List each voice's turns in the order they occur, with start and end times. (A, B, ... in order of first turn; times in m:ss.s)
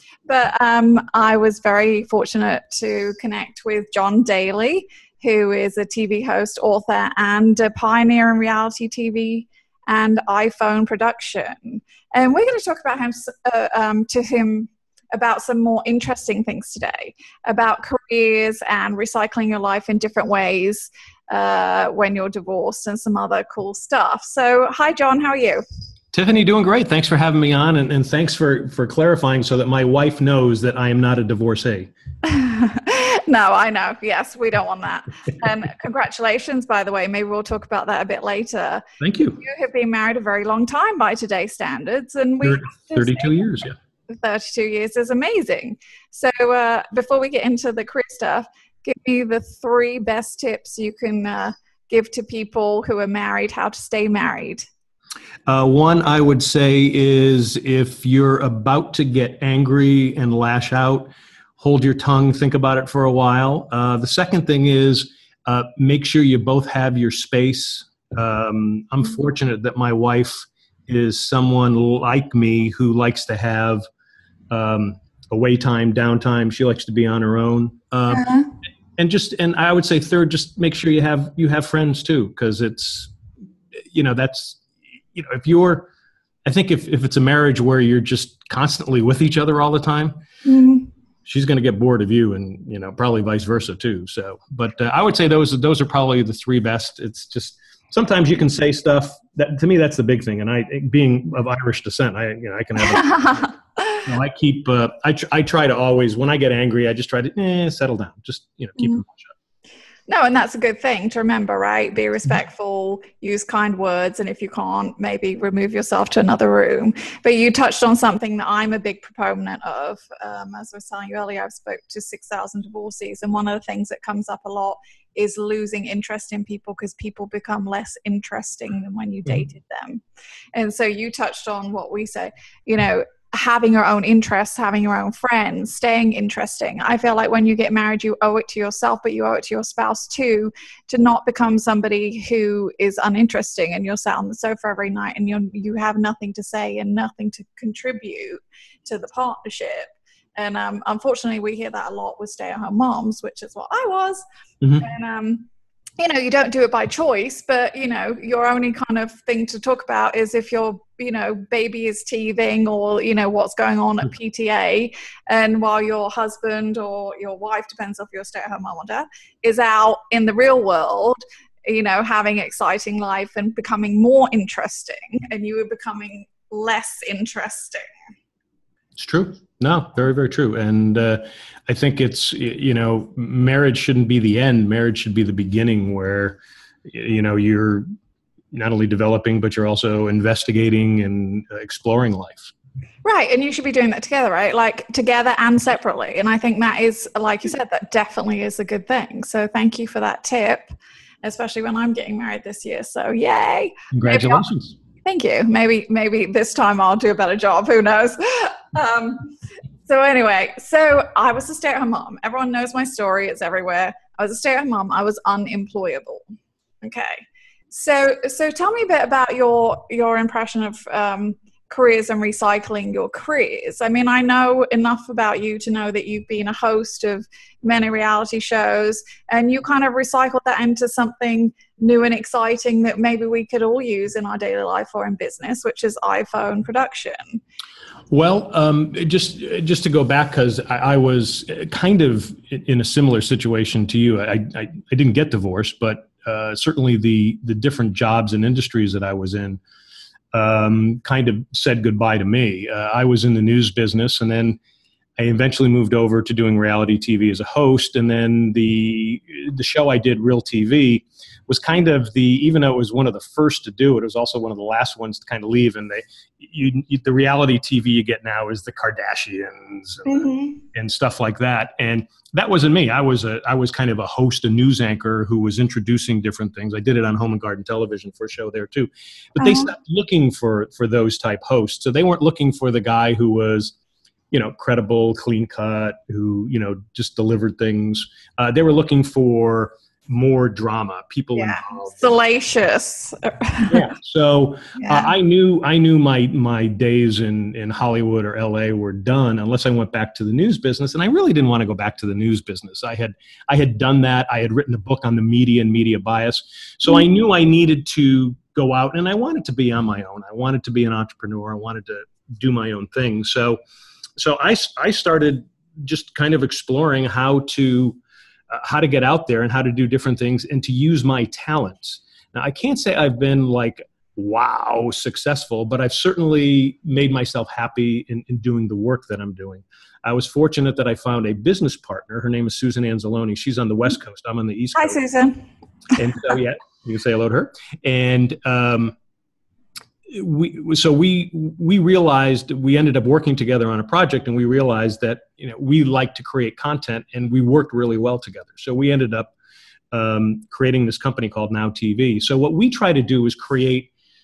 0:00.3-0:25.6 A
0:26.1-0:31.9 B
0:32.2-0:38.8 A
0:39.0-0:39.4 B
0:39.4-0:54.7 A
0:42.4-0:43.8 B
0:55.5-1:13.8 B
1:14.5-1:18.3 B
1:18.1-1:18.5 A
1:18.9-1:23.1 B
1:23.9-1:24.6 B
1:25.1-1:25.9 B
1:26.4-1:30.2 B
1:30.4-1:30.9 A
1:31.2-1:43.1 B
1:42.8-1:44.1 A
1:44.1-1:49.3 B
1:50.1-2:10.0 A
2:10.5-2:34.2 A
2:34.8-2:35.5 A
2:36.0-2:57.8 A
2:59.0-3:07.8 B
3:08.5-3:12.5 B
3:13.0-3:24.4 A
3:23.9-3:24.8 B
3:25.0-3:29.3 A
3:29.8-3:36.2 A
3:36.8-3:57.4 A
3:58.1-4:09.6 B
4:10.3-4:14.6 B
4:15.2-4:43.8 B
4:30.1-4:30.6 A
4:39.4-4:39.7 A
4:44.3-4:52.1 B
4:51.4-4:53.9 A
4:53.7-5:13.6 B
4:54.7-4:55.1 A
5:14.2-5:18.0 B
5:18.5-5:35.0 B
5:34.8-5:35.4 A
5:36.0-5:38.9 B
5:40.1-5:49.3 B
5:49.9-5:53.9 B